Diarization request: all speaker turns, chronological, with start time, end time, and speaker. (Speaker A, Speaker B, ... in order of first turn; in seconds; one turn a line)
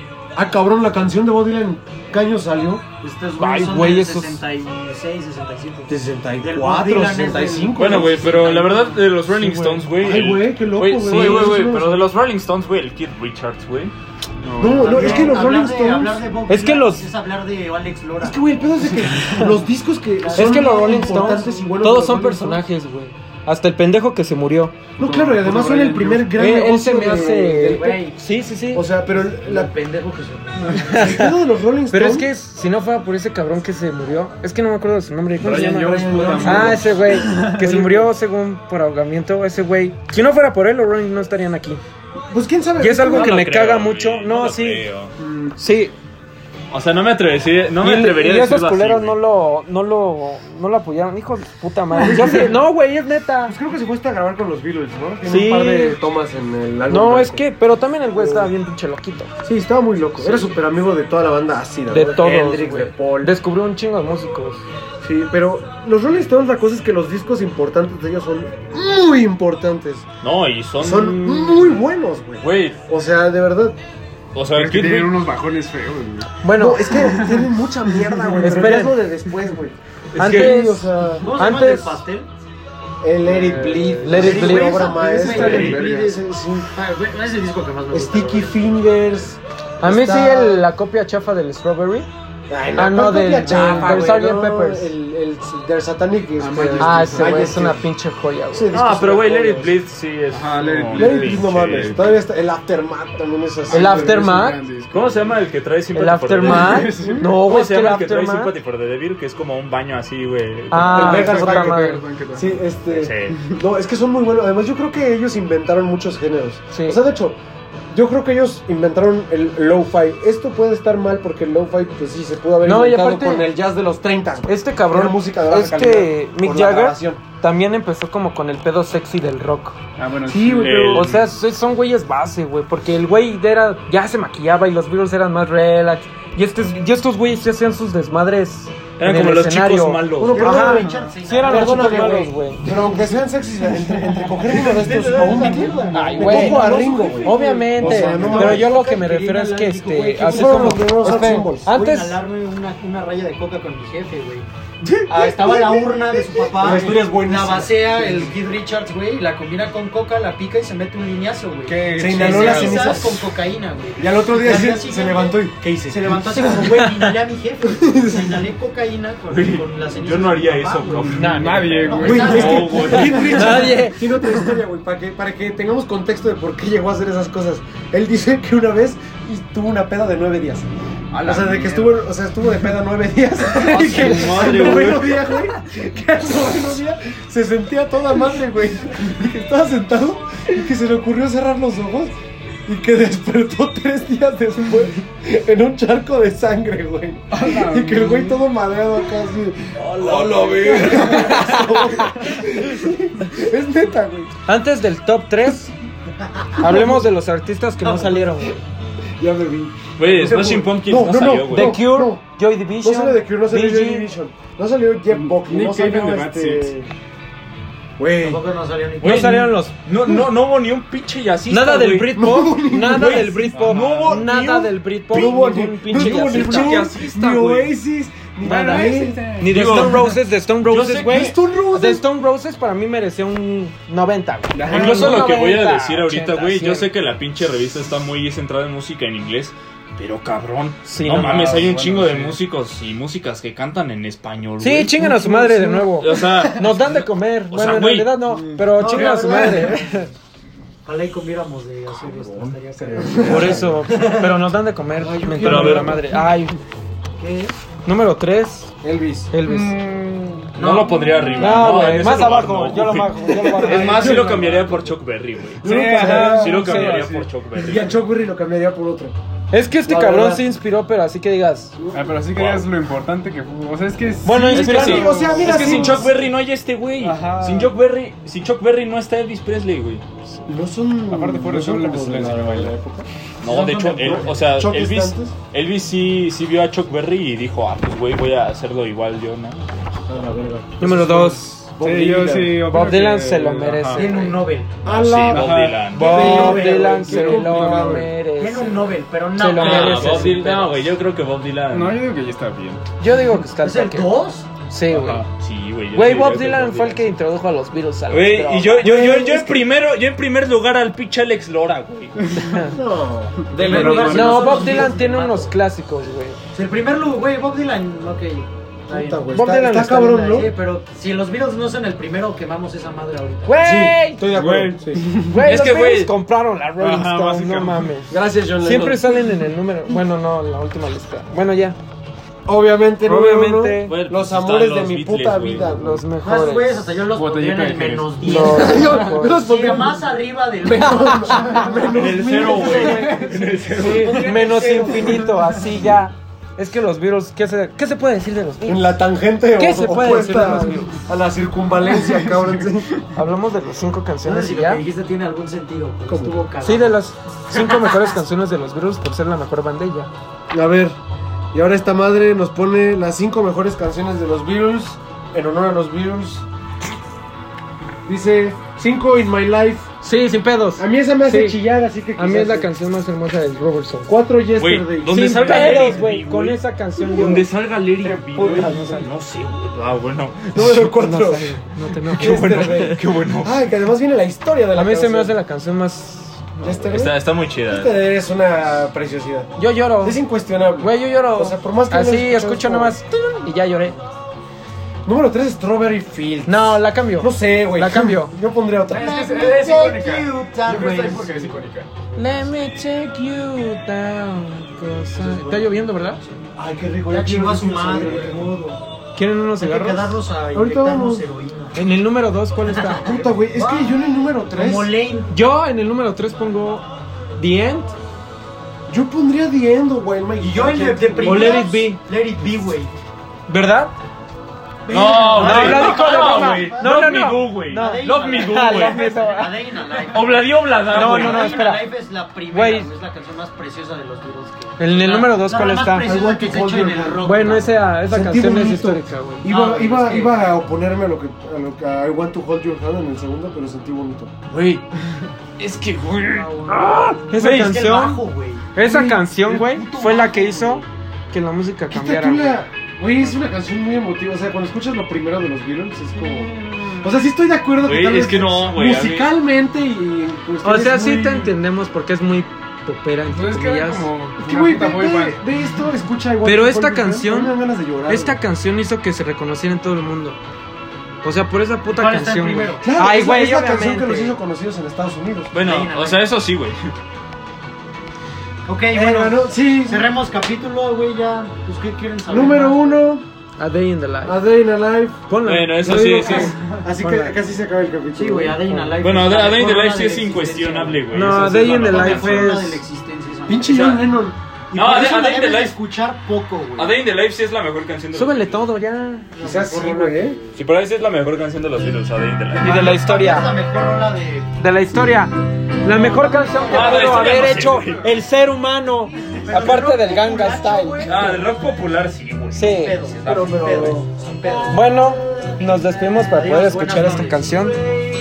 Speaker A: 0.3-2.8
Speaker B: 3.0-9.1
Speaker C: 3.4-4.4
Speaker A: 5.9-8.5
Speaker D: 7.8-13.9
Speaker C: 9.3-9.9
Speaker A: 9.9-12.0
Speaker C: 11.2-11.5
Speaker E: 14.4-15.5
Speaker A: 14.6-16.2
Speaker B: 14.7-18.6
Speaker C: 16.5-17.1
Speaker A: 18.2-22.6
Speaker B: 20.2-21.5
Speaker C: 20.3-24.8
Speaker A: 25.0-28.0
Speaker E: 25.0-26.3
Speaker C: 26.3-28.8
Speaker B: 27.1-28.2
Speaker A: 28.7-29.7
Speaker B: 29.1-31.3
Speaker A: 30.8-32.3
Speaker C: 30.9-31.4
Speaker C: 31.9-41.8
Speaker E: 35.4-38.1
Speaker A: 35.9-37.0
Speaker A: 42.3-43.4
Speaker C: 42.8-44.9
Speaker D: 43.0-45.1
Speaker A: 45.2-45.6
Speaker C: 45.6-45.9
Speaker D: 46.7-49.2
Speaker C: 47.8-53.5
Speaker A: 52.0-52.4
Speaker A: 53.5-57.4
Speaker C: 55.2-56.0
Speaker C: 56.9-59.3
Speaker A: 58.1-58.5
Speaker A: 59.4-63.3
Speaker C: 60.2-60.6
Speaker C: 61.9-64.6
Speaker A: 65.0-70.0
Speaker D: 70.2-71.8
Speaker A: 70.8-73.8
Speaker D: 72.4-72.8
Speaker D: 74.3-75.1
Speaker E: 74.5-76.4
Speaker C: 76.4-77.1
Speaker A: 76.5-81.3
Speaker E: 76.9-77.5
Speaker E: 78.2-78.7
Speaker C: 78.4-79.0
Speaker D: 80.1-80.7
Speaker C: 80.2-82.0
Speaker B: 81.2-82.3
Speaker A: 83.0-86.7
Speaker E: 83.2-86.2
Speaker C: 84.0-85.0
Speaker B: 84.1-88.7
Speaker A: 87.9-90.7
Speaker C: 89.8-92.1
Speaker A: 92.5-97.8
Speaker C: 92.7-94.9
Speaker E: 93.5-93.8
Speaker B: 93.5-94.2
Speaker E: 96.4-97.5
Speaker C: 96.8-98.7
Speaker A: 98.5-99.7
Speaker D: 98.7-101.7
Speaker E: 100.3-102.2
Speaker A: 100.9-104.4
Speaker E: 103.7-105.3
Speaker C: 103.7-104.6
Speaker D: 104.9-111.3
Speaker C: 105.9-108.5
Speaker E: 106.4-107.3
Speaker A: 106.9-107.3
Speaker C: 110.7-112.0
Speaker E: 110.9-112.6
Speaker A: 110.9-117.4
Speaker D: 112.9-113.5
Speaker C: 116.7-117.0
Speaker A: 117.9-127.2
Speaker C: 122.6-123.5
Speaker C: 124.5-142.7
Speaker E: 130.0-131.3
Speaker D: 130.6-131.2
Speaker D: 139.0-140.5
Speaker A: 140.2-148.7
Speaker B: 140.3-142.3
Speaker B: 144.5-154.5
Speaker C: 145.9-152.2
Speaker E: 147.8-148.6
Speaker A: 150.2-151.7
Speaker A: 155.0-158.3
Speaker B: 155.1-171.1
Speaker E: 161.7-163.1
Speaker A: 162.0-163.3
Speaker A: 164.0-166.2
Speaker C: 166.4-167.1
Speaker A: 167.6-168.5
Speaker D: 169.3-173.8
Speaker E: 170.9-173.1
Speaker C: 171.1-174.0
Speaker B: 171.8-173.2
Speaker A: 172.0-180.7
Speaker E: 181.1-182.1
Speaker A: 181.2-192.1
Speaker D: 183.5-185.5
Speaker E: 183.8-184.4
Speaker A: 192.7-204.3
Speaker E: 197.3-198.4
Speaker D: 199.8-201.4
Speaker E: 200.0-201.3
Speaker C: 200.9-201.9
Speaker C: 204.4-205.7
Speaker A: 206.4-207.1
Speaker C: 206.6-208.6
Speaker A: 207.8-208.6
Speaker A: 209.2-212.2
Speaker D: 210.0-211.8
Speaker C: 211.5-214.1
Speaker A: 212.8-216.9
Speaker E: 215.1-216.8
Speaker A: 218.0-218.4
Speaker B: 218.2-219.4
Speaker D: 219.0-222.2
Speaker C: 219.0-219.8
Speaker C: 221.5-227.0
Speaker A: 222.1-223.9
Speaker E: 223.5-224.2
Speaker D: 223.6-225.4
Speaker A: 225.1-230.0
Speaker D: 225.9-227.7
Speaker C: 228.4-236.9
Speaker E: 228.4-229.7
Speaker D: 229.4-231.4
Speaker A: 231.0-232.0
Speaker E: 234.5-235.3
Speaker D: 234.7-245.0
Speaker C: 240.8-241.7
Speaker E: 241.2-242.4
Speaker C: 244.6-250.1
Speaker A: 245.0-246.2
Speaker D: 246.0-248.4
Speaker E: 248.3-248.8
Speaker B: 248.7-249.8
Speaker A: 248.8-249.7
Speaker B: 250.8-254.3
Speaker A: 252.9-253.7
Speaker E: 253.0-253.8
Speaker C: 253.2-256.6
Speaker A: 255.0-256.3
Speaker D: 255.4-256.0
Speaker B: 257.2-257.5
Speaker C: 257.8-258.8
Speaker A: 258.8-259.3
Speaker C: 259.3-259.8
Speaker E: 259.4-260.6
Speaker D: 260.5-268.0
Speaker B: 260.6-261.4
Speaker E: 261.1-261.6
Speaker C: 261.4-264.4
Speaker A: 263.5-264.6
Speaker E: 263.8-264.7
Speaker E: 265.6-267.3
Speaker A: 265.6-267.0
Speaker C: 265.9-267.1
Speaker A: 267.5-269.1
Speaker C: 269.5-271.7
Speaker A: 269.9-270.5
Speaker E: 271.9-276.1
Speaker D: 272.3-272.7
Speaker C: 274.2-275.4
Speaker A: 274.5-276.1
Speaker D: 274.7-280.0
Speaker E: 277.0-277.7
Speaker A: 280.4-283.1
Speaker E: 281.1-282.8
Speaker D: 283.4-289.9
Speaker B: 283.4-284.4
Speaker A: 284.2-285.3
Speaker A: 290.1-292.6
Speaker C: 290.8-291.7
Speaker E: 290.9-291.1
Speaker E: 291.8-294.1
Speaker C: 292.6-300.7
Speaker B: 293.9-294.9
Speaker D: 294.8-296.5
Speaker E: 295.1-298.1
Speaker B: 296.0-297.1
Speaker A: 296.1-298.1
Speaker B: 298.4-300.6
Speaker D: 299.5-302.0
Speaker E: 301.7-302.8
Speaker C: 303.0-305.2
Speaker B: 303.4-304.5
Speaker E: 304.9-305.3
Speaker D: 305.4-307.1
Speaker C: 305.9-309.1
Speaker D: 308.1-312.4
Speaker A: 308.8-309.6
Speaker E: 312.2-312.6
Speaker C: 312.4-312.8
Speaker A: 312.7-314.9
Speaker E: 313.4-314.9
Speaker B: 313.5-315.5
Speaker D: 313.6-314.2
Speaker C: 313.6-316.4
Speaker B: 316.5-319.3
Speaker A: 318.9-320.5
Speaker C: 319.3-320.3
Speaker B: 320.0-323.6
Speaker C: 323.4-331.8
Speaker A: 323.6-325.4
Speaker E: 324.3-325.2
Speaker D: 325.4-326.1
Speaker D: 326.8-327.9
Speaker A: 328.1-329.3
Speaker A: 332.4-336.0
Speaker C: 333.0-334.0
Speaker D: 333.8-335.7
Speaker C: 335.7-336.9
Speaker B: 336.2-341.8
Speaker E: 337.1-338.3
Speaker C: 338.2-339.4
Speaker A: 338.3-343.4
Speaker C: 340.9-341.7
Speaker D: 341.8-344.3
Speaker B: 342.5-345.5
Speaker C: 344.1-351.0
Speaker A: 348.6-352.9
Speaker E: 352.0-352.4
Speaker C: 353.1-354.8
Speaker B: 354.2-357.0
Speaker A: 356.1-356.4
Speaker C: 356.6-360.1
Speaker B: 357.5-358.1
Speaker A: 360.5-361.0
Speaker A: 361.5-366.4
Speaker A: 368.0-369.9
Speaker C: 370.0-371.6
Speaker A: 370.8-372.7
Speaker C: 372.1-374.1
Speaker A: 374.1-376.0
Speaker D: 374.5-380.9
Speaker C: 375.1-377.5
Speaker A: 378.0-378.8
Speaker C: 378.3-379.1
Speaker A: 380.5-385.4
Speaker C: 380.7-382.8
Speaker D: 382.1-383.6
Speaker C: 384.7-386.9
Speaker A: 386.6-393.0
Speaker D: 386.9-388.0
Speaker C: 389.6-390.2
Speaker C: 390.8-394.0
Speaker A: 395.0-399.1
Speaker C: 396.4-398.3
Speaker E: 398.9-401.9
Speaker B: 398.9-401.5
Speaker C: 402.1-406.2
Speaker B: 405.1-406.5
Speaker A: 406.6-408.5
Speaker B: 407.1-408.8
Speaker C: 409.1-410.2
Speaker B: 409.6-411.8
Speaker A: 410.5-411.2
Speaker C: 411.7-413.2
Speaker B: 412.6-415.3
Speaker A: 413.0-414.9
Speaker C: 415.3-416.8
Speaker C: 417.4-417.9
Speaker A: 418.9-421.7
Speaker B: 420.4-422.9
Speaker C: 421.2-422.0
Speaker C: 423.5-423.9
Speaker B: 424.8-437.9
Speaker D: 424.9-429.2
Speaker C: 425.4-429.6
Speaker D: 430.1-431.7
Speaker C: 430.9-431.9
Speaker C: 432.5-432.9
Speaker C: 434.8-436.1
Speaker A: 436.0-437.3
Speaker C: 437.2-439.5
Speaker A: 438.0-444.3
Speaker B: 439.4-440.5
Speaker D: 444.5-444.8
Speaker D: 445.6-447.2
Speaker B: 446.2-448.7
Speaker C: 447.3-452.6
Speaker A: 448.8-449.9
Speaker B: 449.5-450.9
Speaker A: 451.9-461.5
Speaker B: 456.1-457.1
Speaker D: 457.8-459.3
Speaker C: 460.6-464.1
Speaker E: 463.3-465.4
Speaker A: 464.4-468.4
Speaker C: 466.4-470.4
Speaker C: 471.2-474.4
Speaker B: 471.9-472.9
Speaker A: 472.8-475.5
Speaker D: 475.5-476.9
Speaker B: 475.5-476.3
Speaker B: 478.6-483.1
Speaker A: 478.9-480.1
Speaker A: 482.3-483.2
Speaker C: 483.6-484.4
Speaker A: 484.2-485.3
Speaker C: 485.3-486.5
Speaker D: 485.4-486.6
Speaker A: 485.8-488.6
Speaker C: 487.0-487.4
Speaker B: 488.1-493.9
Speaker C: 488.7-488.9
Speaker D: 489.0-492.6
Speaker C: 491.1-492.8
Speaker A: 493.5-494.9
Speaker D: 493.7-494.1
Speaker D: 494.7-495.8
Speaker B: 494.7-497.0
Speaker D: 496.8-498.6
Speaker C: 498.1-499.9
Speaker B: 499.3-500.4
Speaker A: 499.4-500.5
Speaker D: 500.5-502.9
Speaker B: 502.5-504.6
Speaker C: 502.6-503.6
Speaker C: 504.6-511.1
Speaker D: 506.7-508.1
Speaker E: 507.2-507.9
Speaker B: 509.4-511.5
Speaker D: 511.0-513.9
Speaker C: 512.5-513.0
Speaker B: 512.6-515.3
Speaker A: 513.2-514.0
Speaker C: 514.7-517.8
Speaker B: 516.3-517.9